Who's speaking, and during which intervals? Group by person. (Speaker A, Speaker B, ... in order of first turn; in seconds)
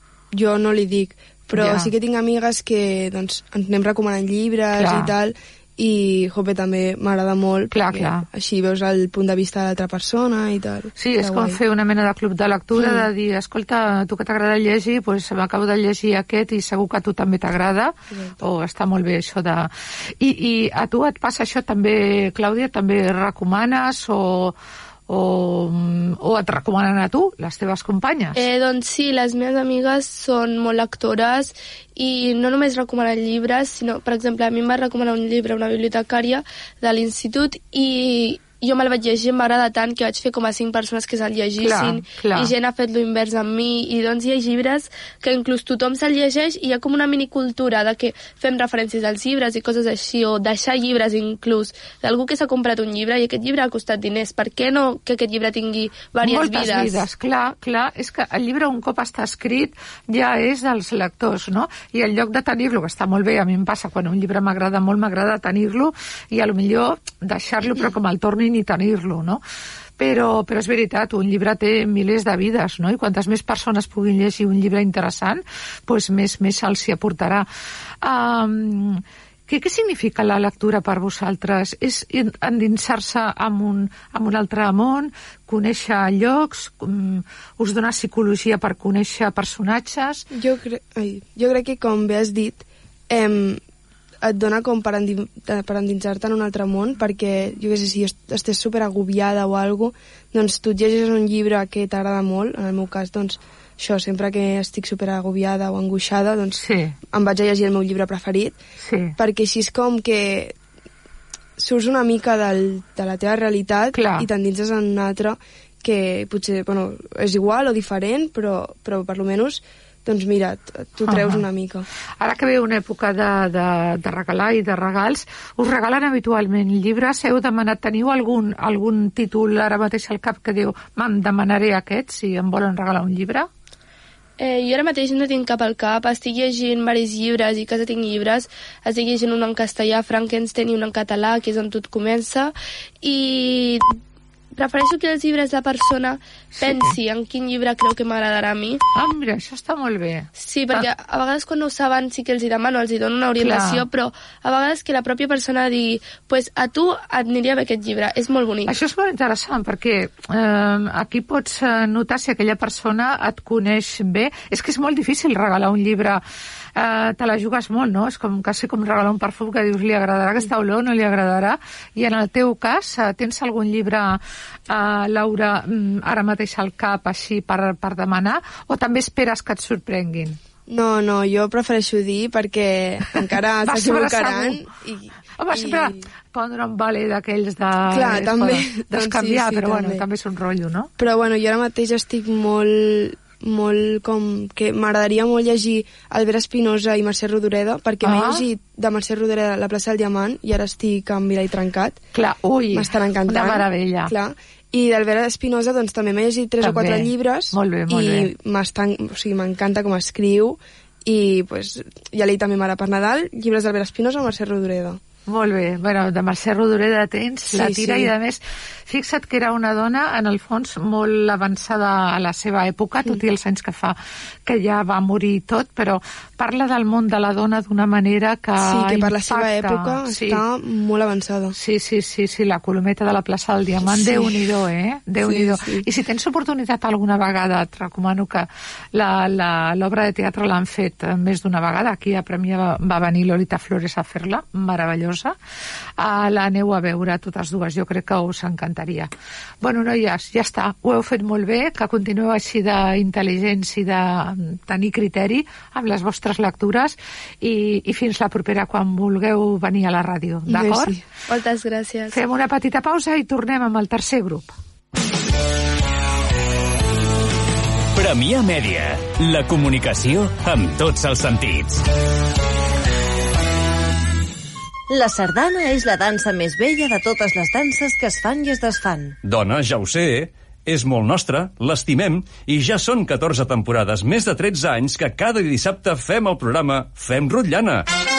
Speaker A: 0.3-11.6, 12.8-13.1, 90.3-93.6, 94.2-108.6, 109.2-110.5, 111.6-121.8, 180.7-186.0, 187.9-190.0, 191.0-202.0, 202.7-215.0, 217.5-218.1, 228.6-231.5, 233.8-234.4, 260.4-261.0
Speaker B: 1.5-1.9, 4.7-5.1, 7.7-8.2, 11.0-24.6, 25.1-28.4, 41.6-42.5, 56.2-69.4, 70.0-77.5, 78.0-90.2, 106.5-106.9, 108.8-109.1, 113.9-114.3, 121.0-121.4, 122.2-133.5, 146.5-146.9, 148.9-150.9, 153.4-153.8, 158.7-166.2, 166.8-180.4, 183.6-184.6, 185.4-190.9, 198.0-198.4, 202.1-204.1, 206.6-208.3, 215.3-230.4, 231.5-245.3, 246.0-249.1, 249.6-260.9, 262.1-264.5
Speaker C: 28.4-57.0, 134.4-143.8, 144.5-148.8, 150.3-158.7, 261.3-262.2
Speaker D: 267.9-271.8
Speaker E: 274.9-279.1
Speaker F: 279.2-287.9